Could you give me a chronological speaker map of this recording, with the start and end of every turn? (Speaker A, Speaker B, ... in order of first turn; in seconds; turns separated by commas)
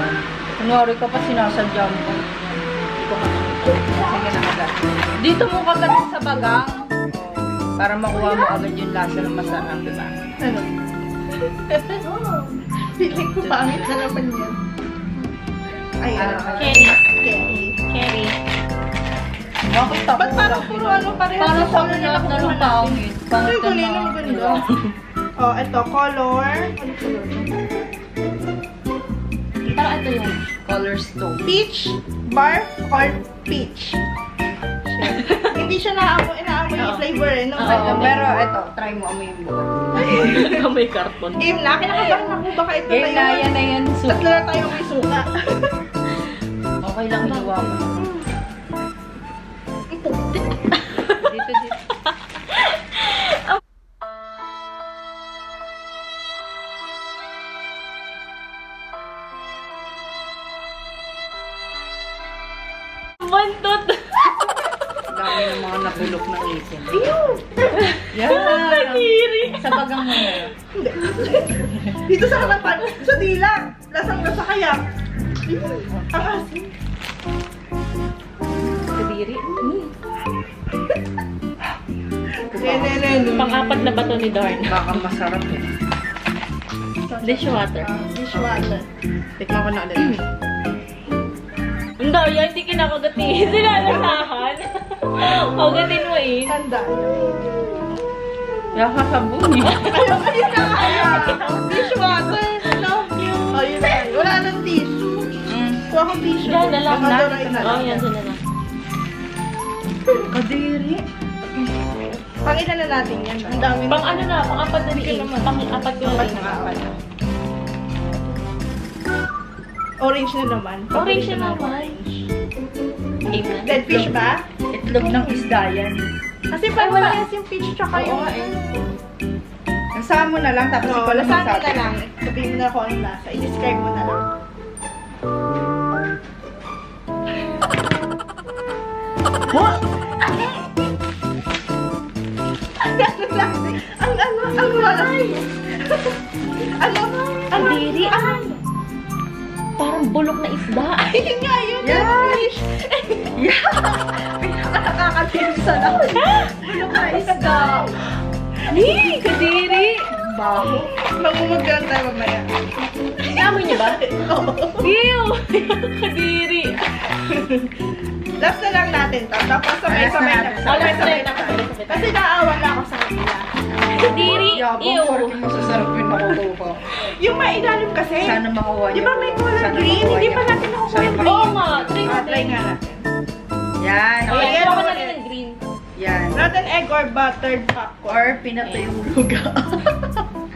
Speaker A: 0.6-2.3, Speaker B: 3.3-3.9, Speaker A: 3.6-10.1, Speaker C: 10.4-10.7, Speaker B: 11.7-12.0, Speaker C: 12.0-14.6, Speaker C: 16.0-17.8, Speaker A: 16.1-16.8, Speaker B: 16.6-17.0, Speaker B: 17.8-18.4, Speaker A: 19.7-24.6, Speaker C: 20.1-24.7, Speaker C: 25.4-27.5, Speaker B: 29.6-30.4, Speaker A: 30.6-31.5, Speaker C: 31.4-34.0, Speaker C: 34.9-38.3, Speaker B: 36.8-37.0, Speaker B: 37.6-38.2, Speaker A: 37.6-40.0, Speaker B: 40.0-41.5, Speaker C: 40.1-40.5, Speaker C: 41.3-45.8, Speaker A: 42.9-44.3, Speaker A: 46.8-48.1, Speaker B: 47.2-48.1, Speaker B: 50.0-51.3, Speaker A: 51.1-51.8, Speaker B: 52.5-53.4, Speaker B: 63.2-64.3, Speaker A: 65.1-67.1, Speaker C: 66.9-67.8, Speaker B: 67.7-70.5, Speaker A: 68.1-70.5, Speaker C: 70.7-74.8, Speaker C: 75.5-76.7, Speaker B: 78.9-79.9, Speaker A: 82.5-83.2, Speaker C: 82.5-83.6, Speaker B: 83.3-85.0, Speaker A: 84.7-85.7, Speaker C: 87.1-88.8, Speaker B: 87.2-87.9, Speaker A: 89.4-90.2, Speaker B: 92.0-96.5, Speaker C: 96.5-97.7, Speaker A: 98.7-100.0, Speaker C: 99.8-108.0, Speaker B: 99.9-102.3, Speaker B: 103.2-104.1, Speaker A: 105.5-105.8, Speaker B: 106.4-108.4, Speaker A: 106.9-107.9, Speaker A: 110.3-111.0, Speaker C: 112.4-114.2, Speaker B: 113.9-116.8, Speaker C: 114.9-116.8, Speaker C: 120.0-122.3, Speaker B: 120.9-122.0, Speaker B: 123.3-124.0, Speaker A: 123.3-124.1, Speaker C: 123.6-124.4, Speaker A: 124.7-126.0, Speaker C: 126.5-128.8, Speaker B: 126.8-127.2, Speaker B: 127.9-128.6, Speaker A: 129.9-131.9, Speaker C: 130.8-134.2, Speaker C: 139.5-140.7, Speaker C: 142.8-145.4, Speaker B: 144.5-145.4, Speaker C: 146.8-148.5, Speaker B: 147.5-148.6, Speaker B: 149.8-151.3, Speaker C: 151.0-153.0, Speaker A: 151.8-152.5, Speaker A: 153.3-157.9, Speaker B: 156.2-156.6, Speaker C: 156.6-158.0, Speaker B: 158.7-160.1, Speaker C: 158.7-159.2, Speaker A: 160.1-160.9, Speaker C: 160.9-162.5, Speaker B: 163.2-164.0, Speaker C: 163.2-164.9, Speaker B: 164.8-166.9, Speaker C: 167.1-167.7, Speaker C: 168.4-173.5, Speaker A: 169.8-171.2, Speaker B: 170.6-172.2, Speaker B: 173.9-175.5, Speaker A: 173.9-176.9, Speaker C: 176.8-181.4, Speaker A: 178.2-182.1, Speaker B: 181.2-182.6, Speaker C: 182.0-183.1, Speaker A: 183.8-184.8, Speaker C: 184.3-185.1, Speaker B: 184.3-185.6, Speaker A: 185.9-186.4, Speaker C: 186.3-188.4, Speaker A: 188.1-190.2